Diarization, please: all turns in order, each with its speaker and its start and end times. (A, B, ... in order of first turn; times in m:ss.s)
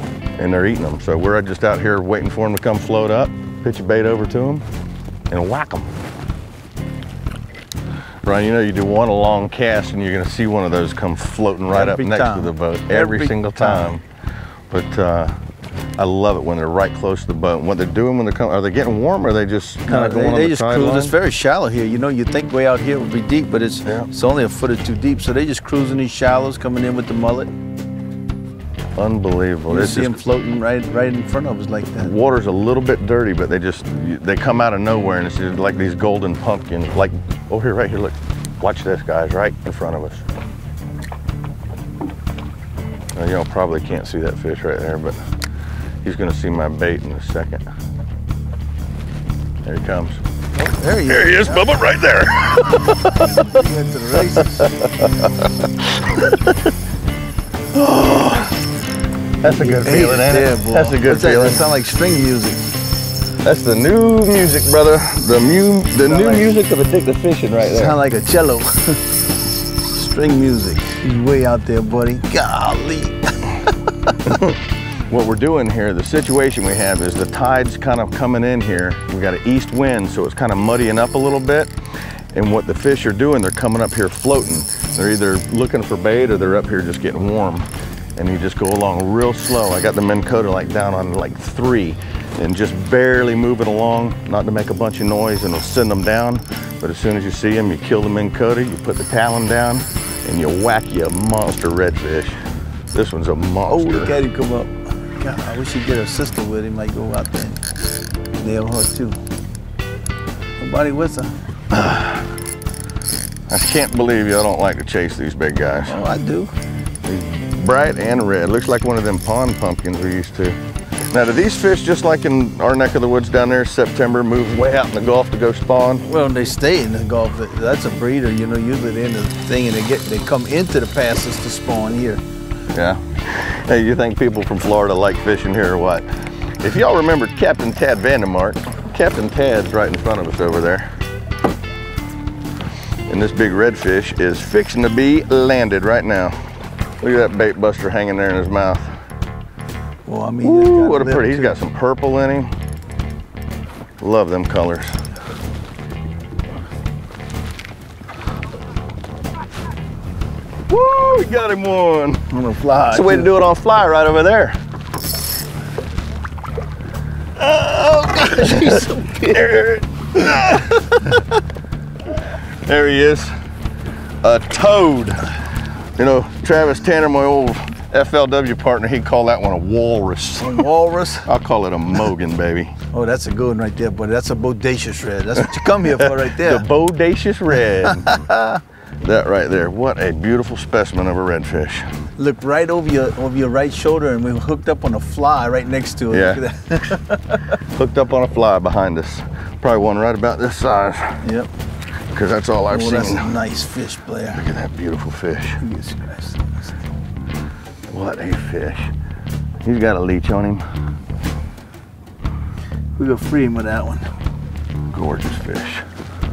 0:00.4-0:04.6 A
0:05.3-0:05.9 A
0:08.2-0:14.0 A
0:11.7-0:13.9 B
0:14.7-0:15.4 A
0:16.0-0:21.1 A
0:19.9-0:27.5 B
0:29.0-0:30.2 A
0:29.7-0:32.1 B
0:32.0-0:40.2 A
0:43.1-0:45.2 A
0:46.0-0:47.6 A
0:49.6-0:50.2 A
0:50.6-0:51.7 B
0:51.1-0:53.6 A
0:53.0-0:54.8 B
0:54.6-0:56.6 A
0:57.7-0:58.5 A
0:59.4-1:01.7 A
0:59.4-1:02.6 B
1:03.4-1:08.0 A
1:06.0-1:06.5 B
1:07.6-1:09.0 B
1:09.9-1:14.1 B
1:14.2-1:14.6 A
1:15.1-1:21.7 A
1:22.3-1:42.4 A
1:42.9-1:44.2 A
1:43.7-1:47.6 B
1:48.4-1:49.2 B
1:50.6-1:51.4 B
1:51.7-1:52.1 A
1:53.5-1:56.0 A
1:55.9-1:56.5 B
1:57.0-2:00.6 A
2:01.1-2:06.1 A
2:06.0-2:12.2 B
2:12.7-2:16.1 A
2:16.6-2:20.8 A
2:23.1-2:26.4 A
2:27.0-2:28.9 A
2:30.0-2:31.6 B
2:30.4-2:32.5 A
2:34.0-2:34.9 A
2:40.7-2:42.2 A
2:42.3-2:43.3 B
2:42.9-2:44.6 A
2:47.4-2:51.1 A
2:47.8-2:49.4 B
2:52.6-2:53.3 A
2:54.2-2:55.3 A
2:56.0-3:00.6 A
3:00.4-3:01.3 B
3:01.2-3:02.7 A
3:02.9-3:06.6 B
3:05.4-3:08.2 A
3:07.8-3:08.6 B
3:09.0-3:11.8 A
3:12.2-3:17.5 B
3:16.1-3:16.4 A
3:17.6-3:21.2 A
3:21.2-3:21.5 B
3:22.1-3:23.3 A
3:22.7-3:24.4 B
3:24.3-3:25.6 A
3:25.6-3:26.8 B
3:27.9-3:28.9 A
3:29.6-3:30.6 A
3:33.0-3:34.1 B
3:34.9-3:35.8 A